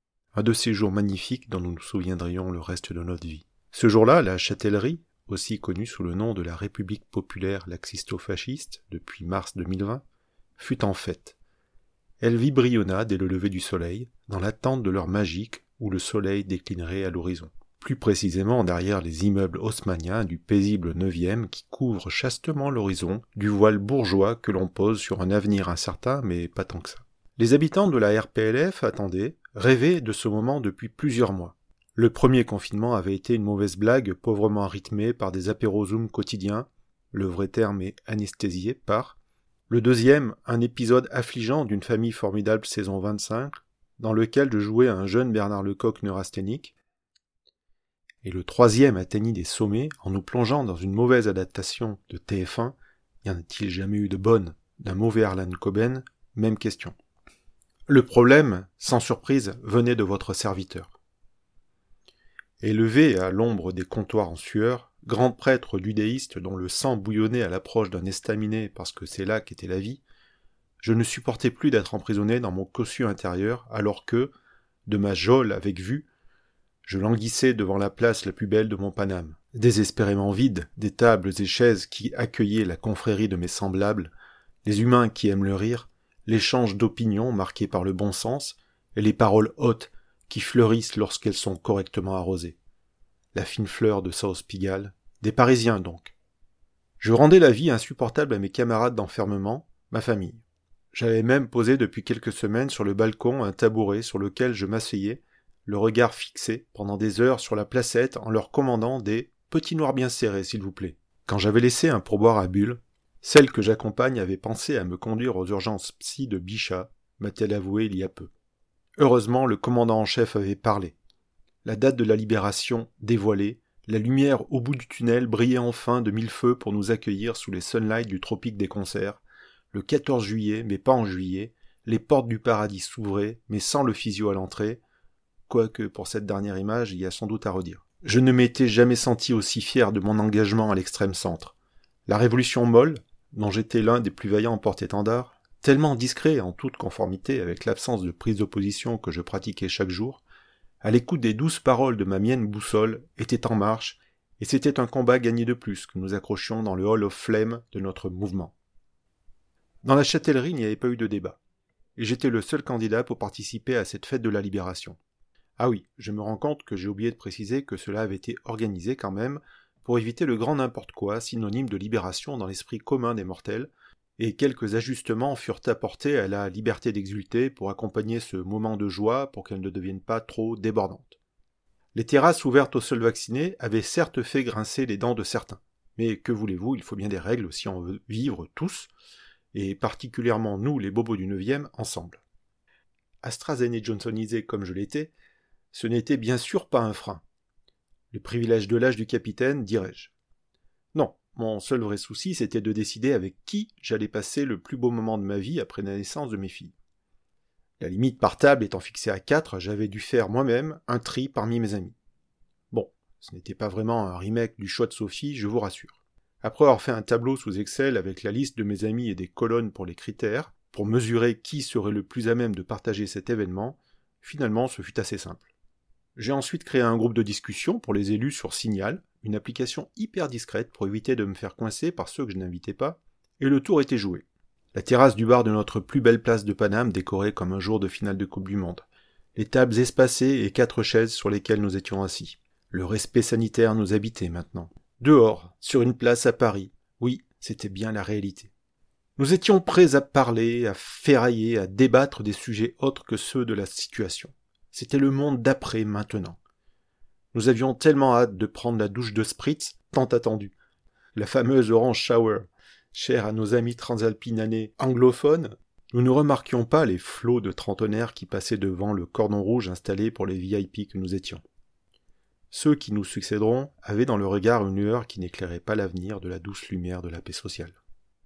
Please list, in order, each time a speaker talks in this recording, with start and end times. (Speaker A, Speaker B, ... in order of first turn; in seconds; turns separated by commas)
Speaker A: 0.3-10.0, Speaker A: 10.6-11.4, Speaker A: 12.2-39.2, Speaker A: 39.7-46.7, Speaker A: 48.2-56.9, Speaker A: 57.9-60.9, Speaker A: 62.6-70.0, Speaker A: 70.8-74.3, Speaker A: 74.9-76.1, Speaker A: 76.8-84.1, Speaker A: 84.6-92.6, Speaker A: 93.3-96.1, Speaker A: 97.0-118.3, Speaker A: 119.0-121.0, Speaker A: 121.6-134.8, Speaker A: 135.5-141.5, Speaker A: 142.1-150.2, Speaker A: 150.8-158.5, Speaker A: 159.8-161.4, Speaker A: 162.0-165.0, Speaker A: 165.6-181.2, Speaker A: 181.9-188.9, Speaker A: 189.5-192.2, Speaker A: 193.2-195.1, Speaker A: 195.7-197.2, Speaker A: 198.1-200.1, Speaker A: 200.9-206.7, Speaker A: 207.8-211.9, Speaker A: 212.7-225.5, Speaker A: 226.2-248.5, Speaker A: 249.2-256.4, Speaker A: 257.3-260.5, Speaker A: 261.1-271.4, Speaker A: 272.5-277.8